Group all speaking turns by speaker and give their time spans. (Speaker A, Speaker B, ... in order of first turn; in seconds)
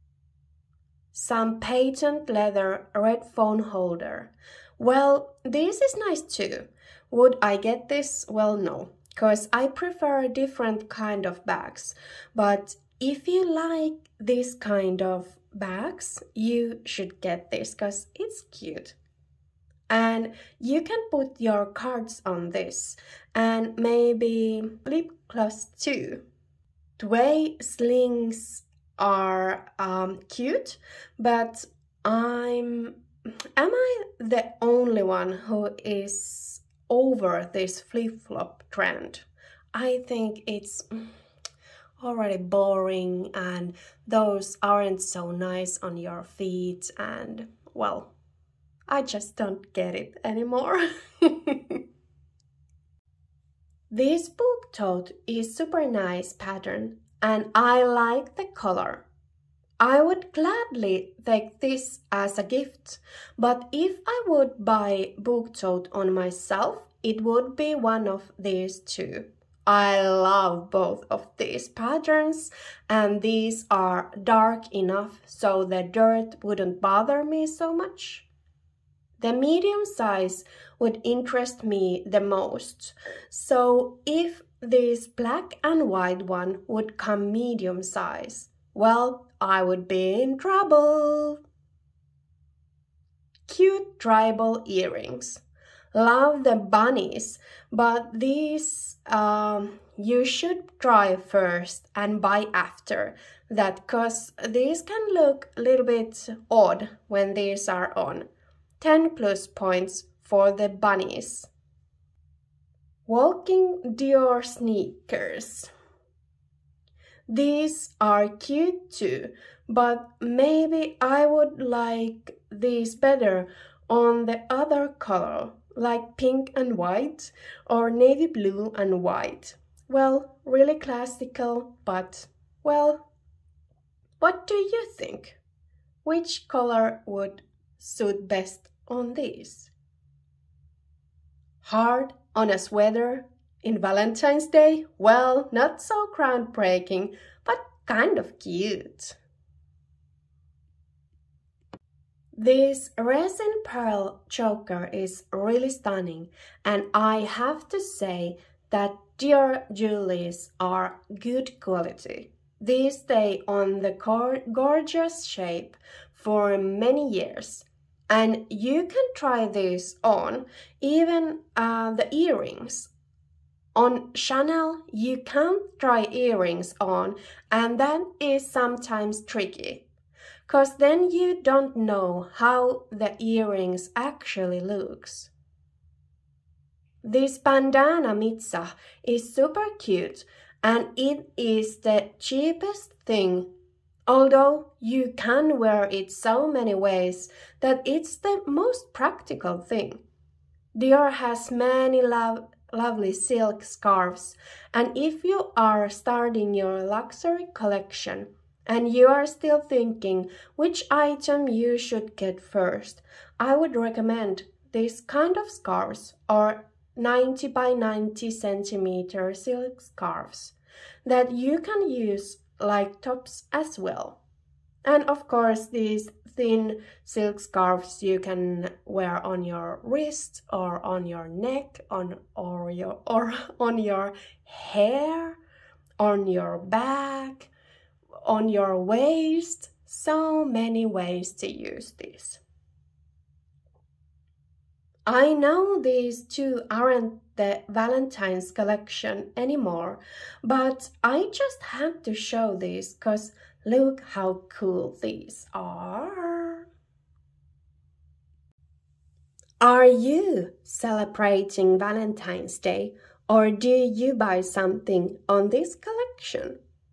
Speaker A: 1.1-18.9, 19.9-26.2, 27.0-33.0, 33.5-41.1, 42.0-48.1, 48.9-51.8, 53.9-59.0, 59.8-78.3, 79.2-91.4, 93.5-95.4, 95.9-108.2, 108.8-111.5, 113.0-115.7, 117.3-133.0, 134.2-135.4, 136.0-139.7, 141.6-149.2, 152.3-172.9, 173.7-179.8, 180.5-185.3, 187.0-193.5, 194.1-200.0, 200.7-220.5, 221.0-224.2, 224.8-235.4, 236.0-237.5, 238.2-242.4, 245.1-256.7, 259.6-266.6